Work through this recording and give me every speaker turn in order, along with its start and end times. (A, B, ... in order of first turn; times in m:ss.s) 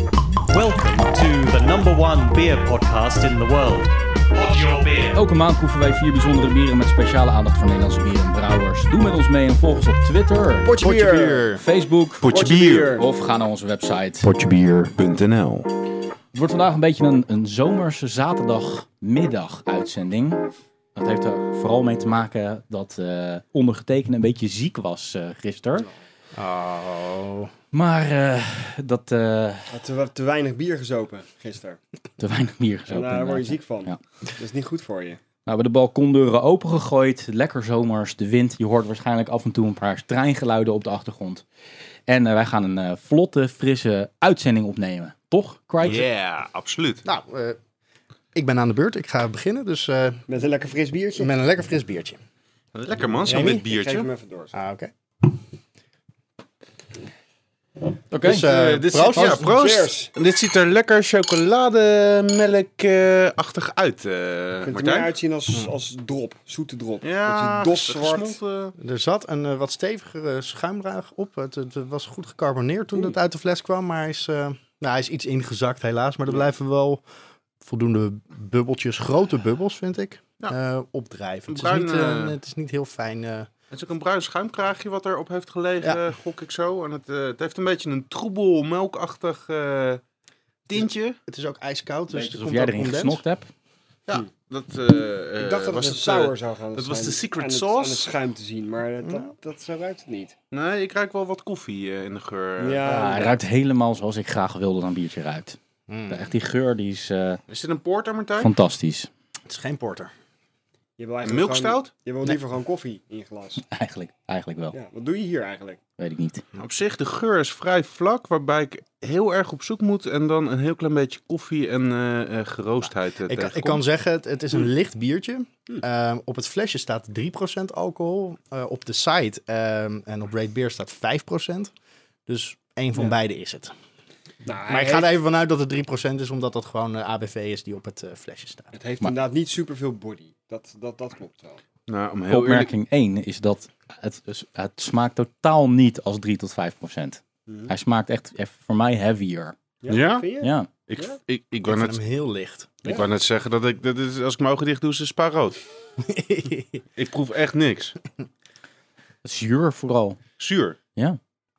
0:00.5-0:05.1 A
0:05.1-0:10.7 B
0:10.6-0:11.5 C
0:10.8-0:11.6 D
0:11.6-0:14.9 B
0:12.2-0:13.0 E
0:12.3-0:13.1 C
0:14.2-0:15.7 E
0:16.3-0:25.9 B
0:26.3-0:27.5 D
0:27.7-0:29.7 B
0:29.7-0:31.8 C
0:32.2-0:34.0 B
0:32.9-0:35.2 C
0:35.4-0:41.4 B
0:42.1-0:46.1 B
0:45.8-0:47.0 E
0:47.0-0:47.6 D
0:48.3-0:50.2 D
0:50.3-0:51.3 C
0:51.2-0:52.2 D
0:52.7-0:54.1 E
0:53.2-0:54.5 C
0:53.2-0:53.6 D
0:54.5-0:54.9 D
0:58.1-0:58.6 B
0:58.2-0:59.5 D
0:58.3-1:05.1 E
0:59.3-1:00.1 C
1:04.6-1:08.4 C
1:07.0-1:08.7 E
1:08.8-1:17.0 D
1:17.6-1:23.5 D
1:21.5-1:22.4 E
1:23.7-1:30.0 E
1:30.7-1:31.2 E
1:30.7-1:33.2 D
1:32.1-1:33.5 B
1:34.1-1:38.1 E
1:35.4-1:40.3 C
1:39.0-1:39.3 D
1:40.5-1:42.9 E
1:42.6-1:43.4 C
1:42.8-1:45.6 B
1:45.9-1:46.3 D
1:46.1-1:47.4 B
1:47.5-1:48.5 E
1:48.4-1:49.1 B
1:49.4-1:50.1 D
1:51.0-1:53.6 C
1:51.2-1:51.9 E
1:53.7-1:54.8 B
1:54.7-1:55.8 C
1:56.0-1:56.4 B
1:56.6-2:03.8 E
2:03.2-2:11.7 D
2:12.3-2:13.7 D
2:14.4-2:15.2 C
2:14.7-2:18.7 D
2:18.7-2:21.6 C
2:21.9-2:22.7 E
2:22.3-2:29.5 B
2:27.5-2:27.7 C
2:29.8-2:31.2 C
2:29.9-2:30.3 E
2:30.4-2:30.7 B
2:30.9-2:32.0 E
2:31.6-2:32.9 D
2:32.8-2:35.6 E
2:36.0-2:36.8 D
2:37.0-2:38.0 E
2:39.2-2:40.2 B
2:40.4-2:40.8 E